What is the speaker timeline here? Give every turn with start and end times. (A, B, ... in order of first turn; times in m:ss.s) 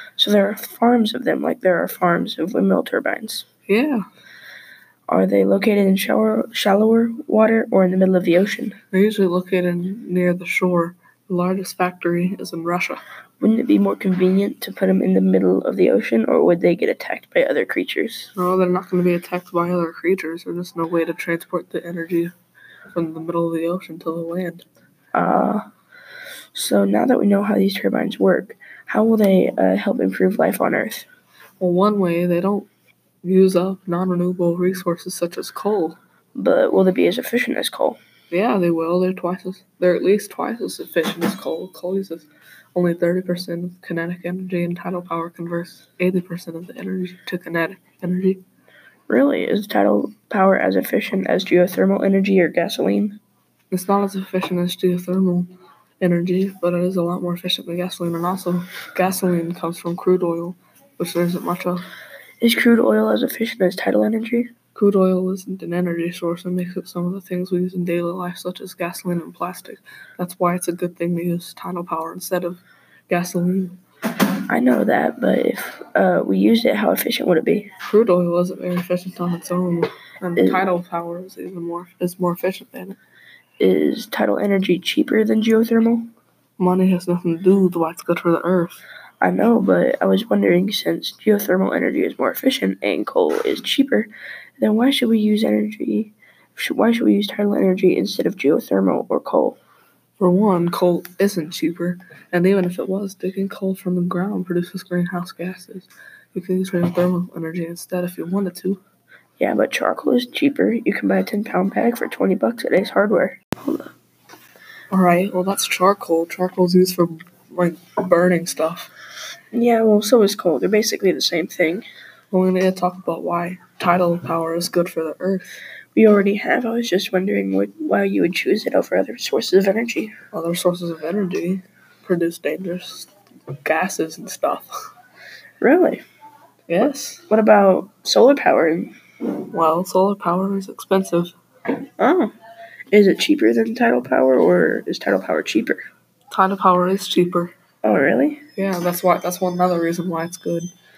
0:00.2-0:03.5 A
0:03.7-0:04.0 B
0:05.1-0:08.8 A
0:08.9-0:13.0 B
0:13.4-0:18.3 A
0:18.4-0:22.3 B
0:22.9-0:24.6 B
0:25.1-0:25.6 A
0:26.5-0:31.1 A
0:31.6-0:32.7 B
0:33.2-0:36.0 B
0:36.4-0:38.0 A
0:38.3-0:48.4 B
0:49.1-0:53.2 A
0:53.7-1:01.9 B
1:02.4-1:04.5 A
1:04.8-1:13.8 B
1:14.5-1:17.7 A
1:17.8-1:23.0 B
1:20.4-1:20.7 A
1:23.6-1:26.1 A
1:26.6-1:28.8 B
1:29.2-1:39.6 A
1:40.2-1:48.8 B
1:49.4-1:53.9 A
1:54.9-1:58.9 B
1:59.5-2:01.9 A
2:02.3-2:05.6 B
2:06.0-2:10.2 A
2:10.3-2:14.7 B
2:15.6-2:16.0 A
2:16.7-2:17.2 B
2:17.3-2:19.0 A
2:19.5-2:21.4 B
2:22.0-2:22.3 A
2:22.9-2:25.8 A
2:26.3-2:27.5 B
2:27.8-2:28.4 A
2:28.6-2:30.7 B